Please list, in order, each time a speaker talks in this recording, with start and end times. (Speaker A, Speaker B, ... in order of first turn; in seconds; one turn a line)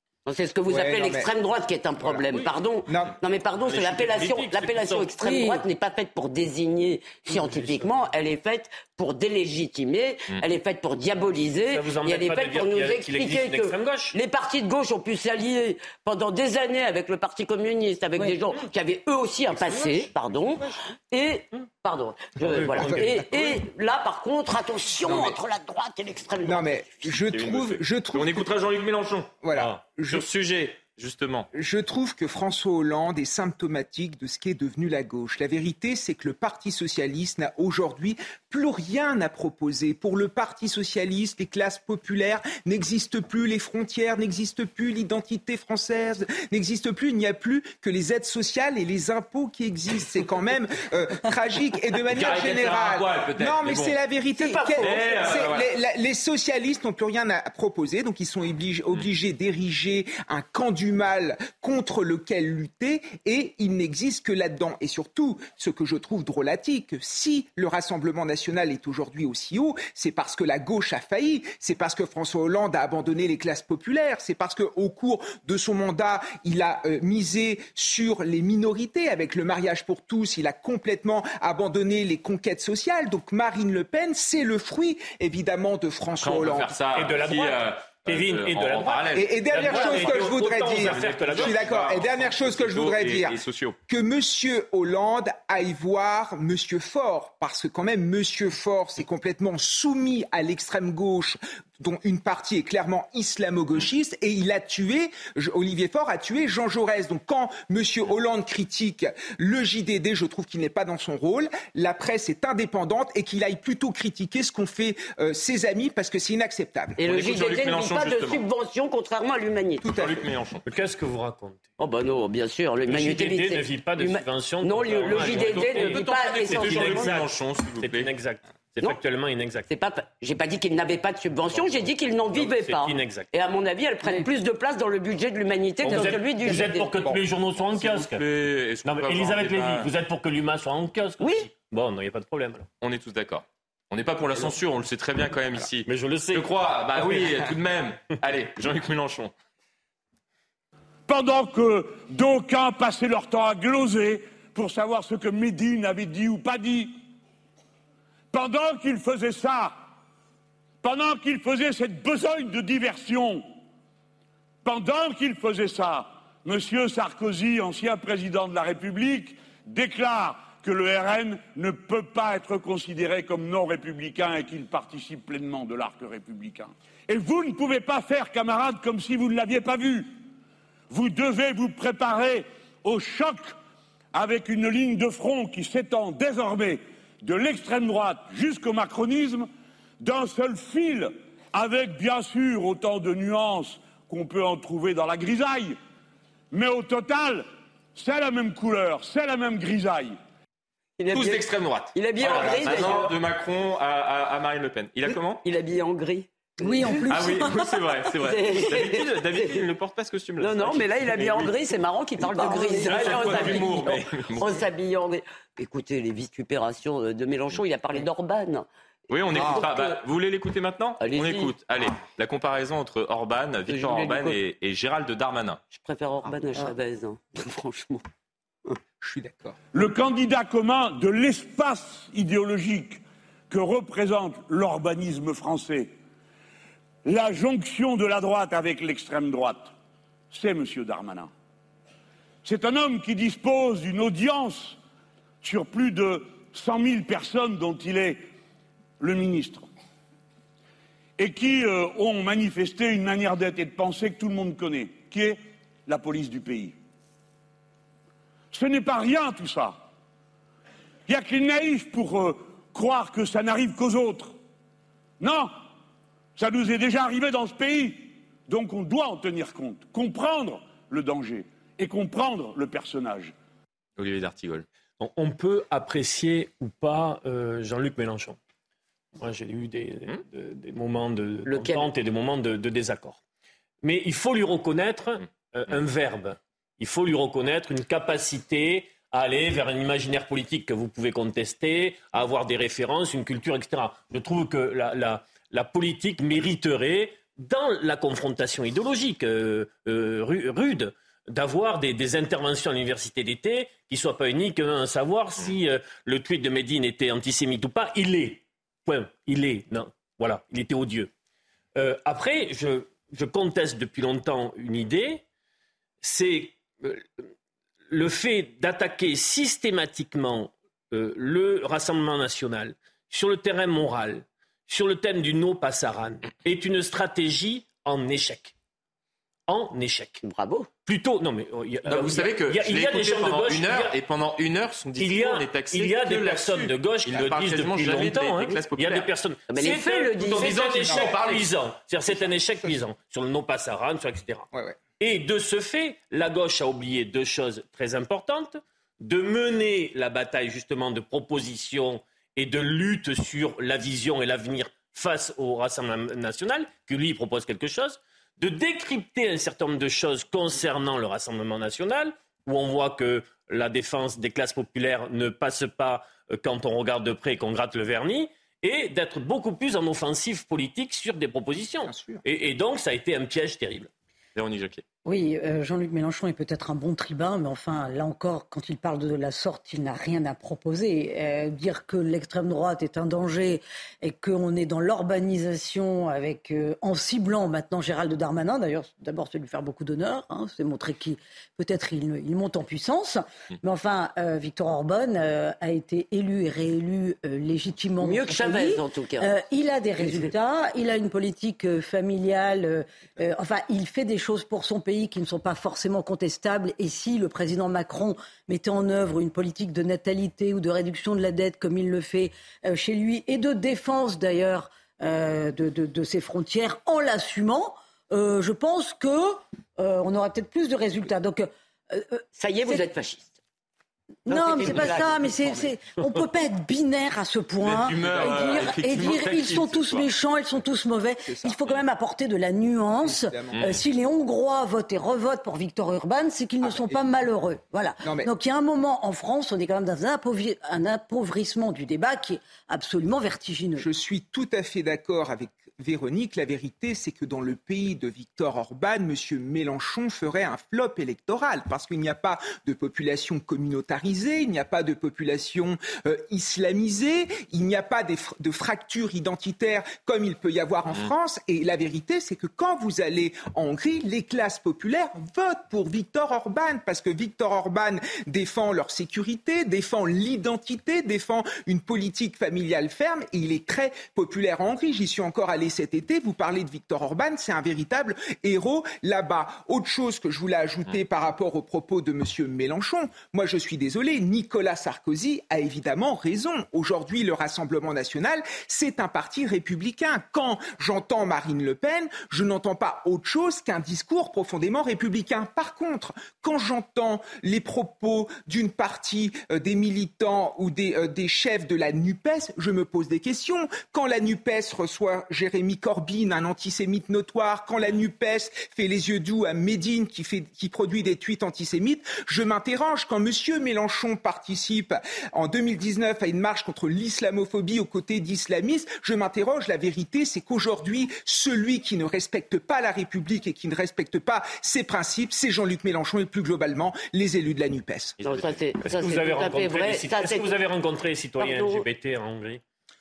Speaker A: 0.2-26.7
Speaker B: 0.7-1.3
Speaker B: 2.0-3.1
Speaker C: 3.6-5.2
Speaker D: 5.2-5.6
Speaker C: 7.3-7.9
Speaker C: 11.7-14.2
Speaker B: 19.5-20.1
Speaker C: 22.4-23.3
Speaker B: 22.4-23.2
Speaker B: 25.0-25.4
Speaker B: 26.4-28.5
Speaker E: 27.2-31.5
Speaker B: 29.4-30.2
Speaker B: 31.5-86.7
Speaker E: 52.1-54.0
Speaker A: 54.4-55.4
Speaker E: 54.8-55.7
Speaker E: 86.2-93.8
Speaker C: 86.9-91.7
Speaker B: 89.2-93.4
Speaker B: 93.9-117.0
Speaker A: 117.0-119.9
Speaker E: 117.0-118.4
Speaker E: 119.8-120.6
Speaker B: 119.8-120.2
Speaker C: 120.6-121.6
Speaker A: 121.8-127.2
Speaker C: 122.9-129.7
Speaker E: 125.1-128.1
Speaker A: 129.7-137.2
Speaker C: 132.3-133.3
Speaker C: 135.8-138.2
Speaker E: 137.7-139.9
Speaker C: 138.8-142.7
Speaker A: 141.2-141.4
Speaker E: 142.8-149.3
Speaker C: 145.8-146.5
Speaker F: 151.1-157.0
Speaker F: 158.3-159.9
Speaker F: 160.8-163.5
Speaker F: 164.6-180.1
Speaker F: 180.9-183.5
Speaker F: 184.1-189.5
Speaker F: 190.0-195.8
Speaker F: 196.5-200.2
Speaker A: 201.0-203.2
Speaker E: 201.1-205.4
Speaker A: 205.1-209.6
Speaker D: 206.6-207.7
Speaker E: 207.1-211.5
Speaker A: 210.4-218.7
Speaker D: 212.2-213.9
Speaker E: 212.4-214.6
Speaker E: 219.1-225.6
Speaker A: 219.3-220.0
Speaker A: 221.0-221.5
Speaker A: 223.7-224.4
Speaker A: 225.7-228.0
Speaker B: 229.0-229.6
Speaker F: 229.7-235.9
Speaker F: 237.0-239.7
Speaker F: 240.3-241.3
Speaker F: 242.4-244.8
Speaker F: 245.4-248.2
Speaker F: 249.0-249.7
Speaker F: 251.2-256.8
Speaker F: 258.5-259.8
Speaker F: 261.1-264.3
Speaker F: 265.2-265.5
Speaker F: 266.4-273.3
Speaker E: 274.0-274.6
Speaker C: 275.0-278.4
Speaker C: 279.2-283.2
Speaker A: 281.5-281.9
Speaker C: 283.8-311.1
Speaker C: 311.7-315.2
Speaker C: 316.0-317.2
Speaker C: 317.9-328.5
Speaker C: 329.5-330.2
Speaker A: 330.2-330.7
Speaker C: 330.9-333.9
Speaker E: 331.9-339.1
Speaker C: 335.0-344.5
Speaker A: 339.5-340.8
Speaker E: 340.3-341.5
Speaker B: 342.1-342.8
Speaker B: 344.5-344.8
Speaker C: 345.0-373.9
Speaker B: 371.8-372.2
Speaker E: 374.3-374.8
Speaker D: 375.0-422.8
Speaker A: 398.0-399.3
Speaker A: 400.0-400.3
Speaker A: 422.4-423.3
Speaker D: 424.2-443.9
Speaker A: 424.3-425.6
Speaker E: 427.6-430.1
Speaker B: 428.0-428.6
Speaker B: 431.3-431.7
Speaker B: 433.0-433.8
Speaker B: 436.6-437.0
Speaker B: 438.0-438.3
Speaker B: 443.8-528.2
Speaker E: 528.2-528.6
Speaker A: 528.2-530.5
Speaker C: 528.8-532.6
Speaker A: 531.4-531.8